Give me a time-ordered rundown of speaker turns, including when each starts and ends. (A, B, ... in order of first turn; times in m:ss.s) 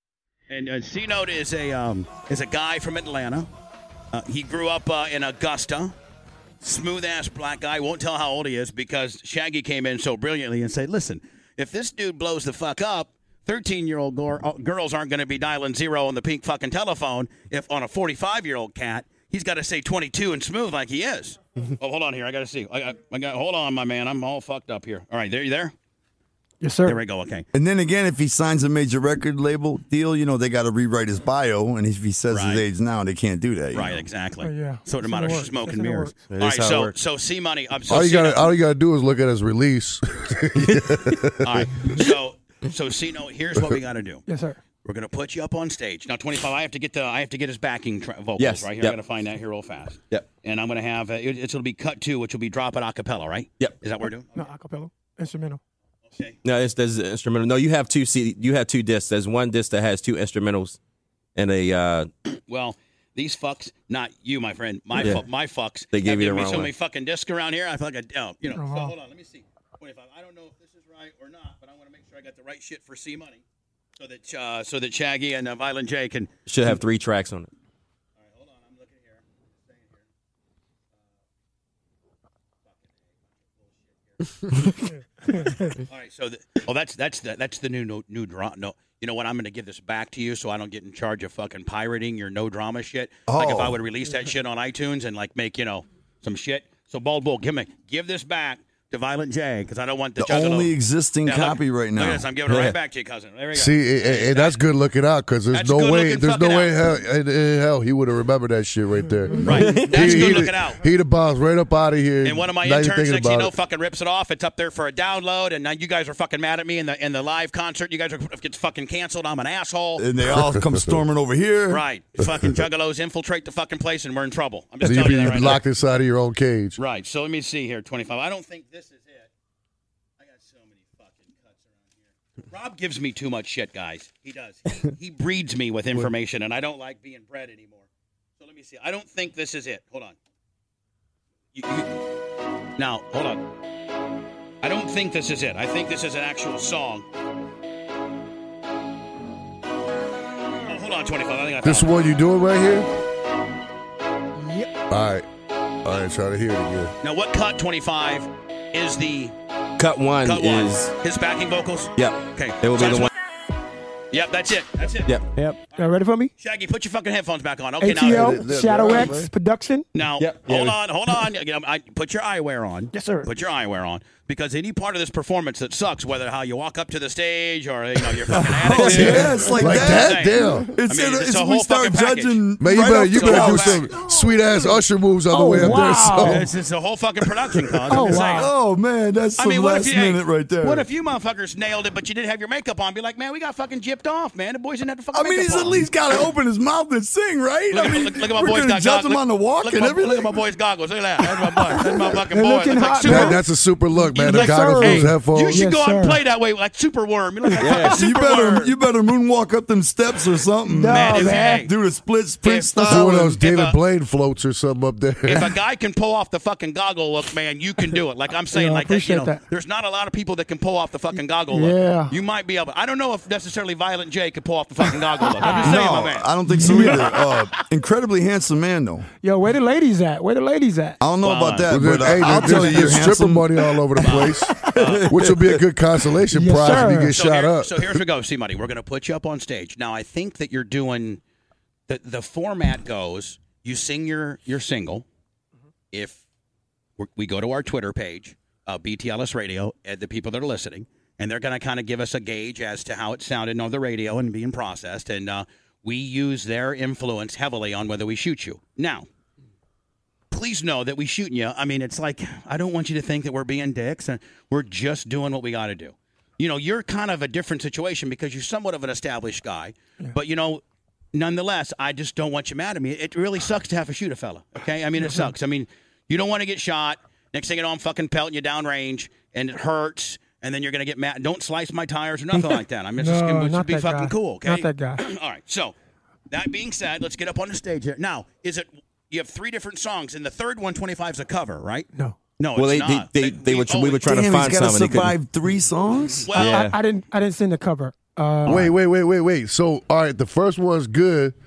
0:00.5-0:03.5 A
0:04.1-0:05.9 A
0:06.6-0:25.7 A
0:26.6-0:27.0 B
0:26.8-0:27.5 A
0:27.5-0:34.0 C
0:32.3-0:32.6 A
0:33.7-0:38.4 A
0:34.4-0:36.1 B
0:36.3-0:36.9 D
0:37.9-0:41.7 E
0:40.6-0:40.9 D
0:41.4-0:44.3 A
0:44.3-0:44.6 B
0:44.8-0:54.3 A
0:48.4-0:49.0 D
0:54.3-0:55.6 B
0:56.1-0:56.4 A
0:56.4-1:00.8 D
1:01.4-1:02.1 D
1:02.5-1:13.4 A
1:05.0-1:05.2 D
1:05.9-1:06.7 D
1:08.5-1:08.9 B
1:14.0-1:16.3 A
1:16.4-1:17.5 D
1:18.2-1:20.0 A
1:23.6-1:24.6 A
1:25.3-1:40.7 A
1:33.3-1:33.8 C
1:40.2-1:42.3 C
1:41.2-1:44.6 A
1:42.5-1:42.7 D
1:43.5-1:53.5 E
1:45.5-1:46.7 A
1:49.4-1:50.8 A
1:49.5-1:50.4 D
1:52.2-2:00.0 A
2:00.0-2:01.8 C
2:00.3-2:01.0 E
2:01.7-2:05.6 A
2:04.8-2:06.8 E
2:06.8-2:09.3 A
2:10.2-2:17.9 A
2:18.4-2:20.2 A
2:21.5-2:21.9 A
2:22.8-2:23.5 A
2:24.6-2:27.1 A
2:30.6-2:31.9 A
2:31.6-2:32.9 E
2:34.9-2:35.2 E
2:35.8-2:36.9 E
2:37.0-2:39.3 A
2:39.8-2:40.9 D
2:40.2-2:43.1 A
2:42.0-2:43.1 D
2:44.1-2:45.1 A
2:45.0-2:45.3 D
2:45.7-2:46.3 B
2:45.7-2:48.4 A
2:47.8-2:49.8 B
2:48.0-2:49.3 E
2:49.9-3:02.4 A
2:50.2-2:50.8 D
2:52.9-2:53.3 B
2:58.3-2:59.1 B
2:58.6-3:04.0 C
2:58.8-3:00.7 E
2:58.9-2:59.2 D
3:02.6-3:06.5 E
3:03.0-3:04.0 A
3:05.3-3:06.5 B
3:06.2-3:08.5 A
3:07.9-3:08.5 B
3:08.0-3:10.9 C
3:09.4-3:15.9 A
3:15.1-3:20.4 C
3:17.7-3:23.4 A
3:22.3-3:23.4 B
3:23.0-3:25.6 E
3:24.1-3:26.2 B
3:24.1-3:28.7 A
3:27.6-3:28.0 D
3:27.8-3:33.4 C
3:30.6-3:31.7 B
3:30.9-3:31.7 A
3:32.4-3:33.8 A
3:32.8-3:35.5 E
3:35.3-3:47.0 A
3:38.5-3:39.4 B
3:41.5-3:42.1 B
3:45.4-3:45.8 B
3:45.4-3:49.1 C
3:46.5-3:47.2 B
3:49.2-3:51.0 B
3:51.0-3:55.6 C
3:51.2-3:53.0 A
3:51.7-3:58.0 E
3:54.0-3:55.2 A
3:56.3-3:57.1 B
3:57.1-4:01.2 A
4:01.9-4:05.0 A
4:05.9-4:06.2 A
4:07.0-4:19.1 A
4:20.3-4:30.6 A
4:31.1-4:45.7 A
4:35.0-4:35.3 B
4:42.3-4:45.0 B
4:46.3-4:54.1 A
4:52.6-4:55.1 D
4:54.0-4:56.3 C
4:56.2-4:56.6 A
4:56.3-4:56.8 D
4:56.4-4:58.7 B
4:58.4-5:01.3 E